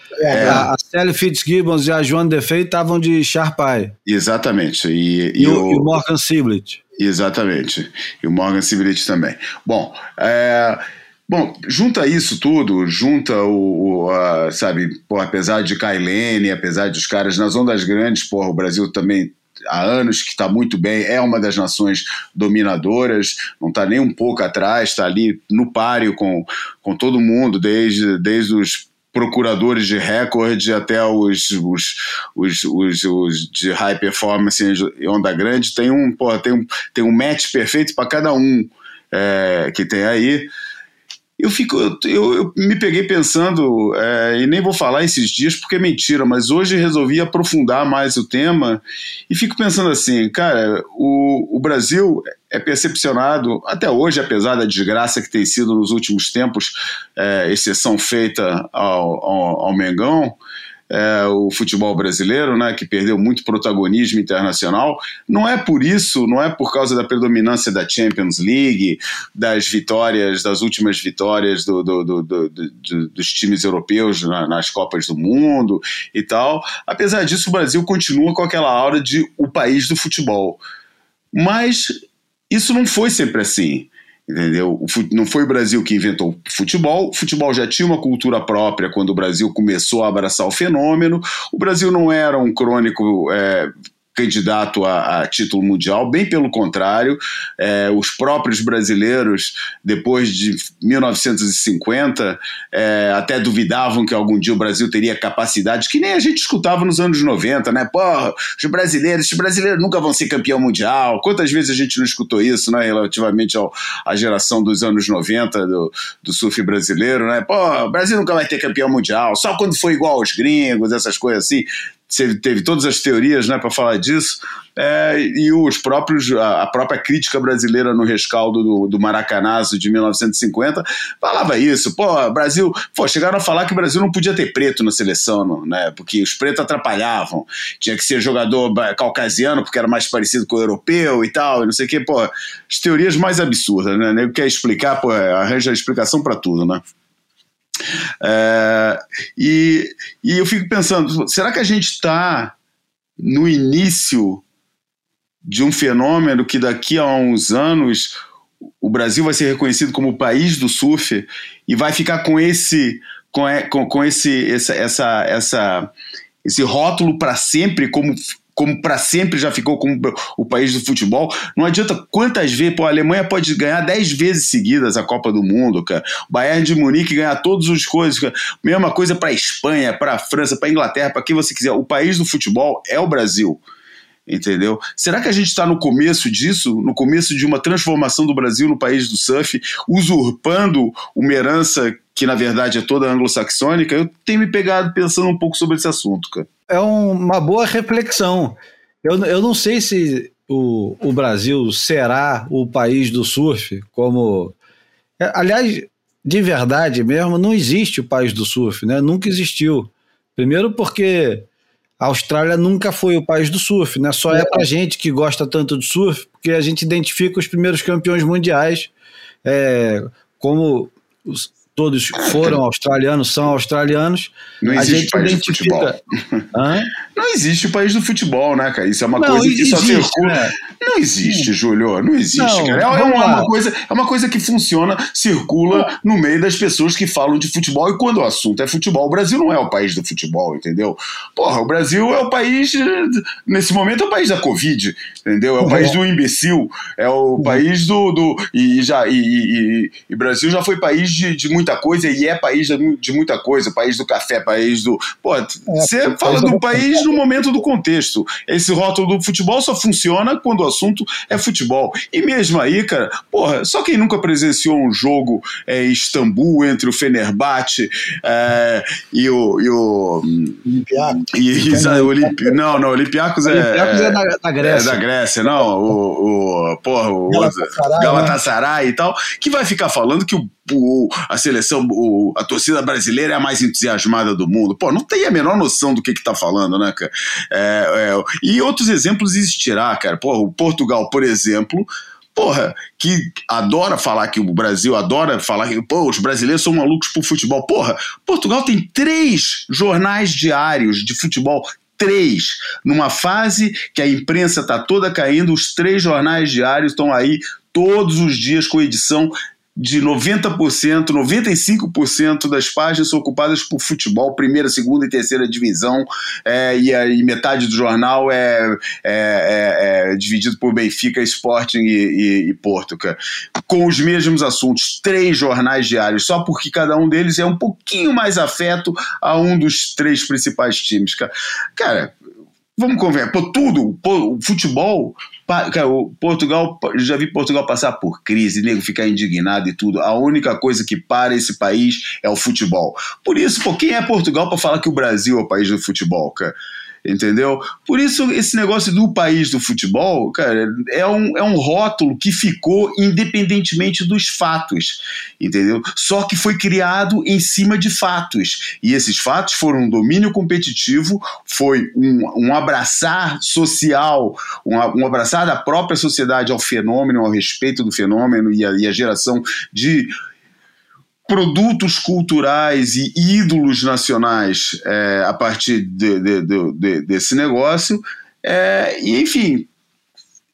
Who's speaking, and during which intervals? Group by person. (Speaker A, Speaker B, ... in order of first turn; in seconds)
Speaker A: 0.2-0.7, 214.3-214.7, 245.6-246.0, 255.7-257.2, 270.6-272.6, 277.3-278.4
Speaker B: 0.3-0.7, 4.1-6.0, 7.0-40.5, 41.4-60.4, 60.9-80.6, 81.3-81.9, 82.5-146.8, 148.2-152.6, 153.2-154.4, 155.4-158.2, 158.8-165.9, 166.4-183.6, 184.3-196.5, 222.2-222.6, 224.6-226.4, 227.2-270.6, 271.3-332.1, 332.8-370.1, 371.3-379.7
Speaker C: 0.4-3.9, 5.4-6.8, 196.7-204.6, 205.2-211.5, 212.0-218.9, 219.4-226.0, 226.5-226.9, 229.2-230.5, 232.3-233.5, 273.5-275.0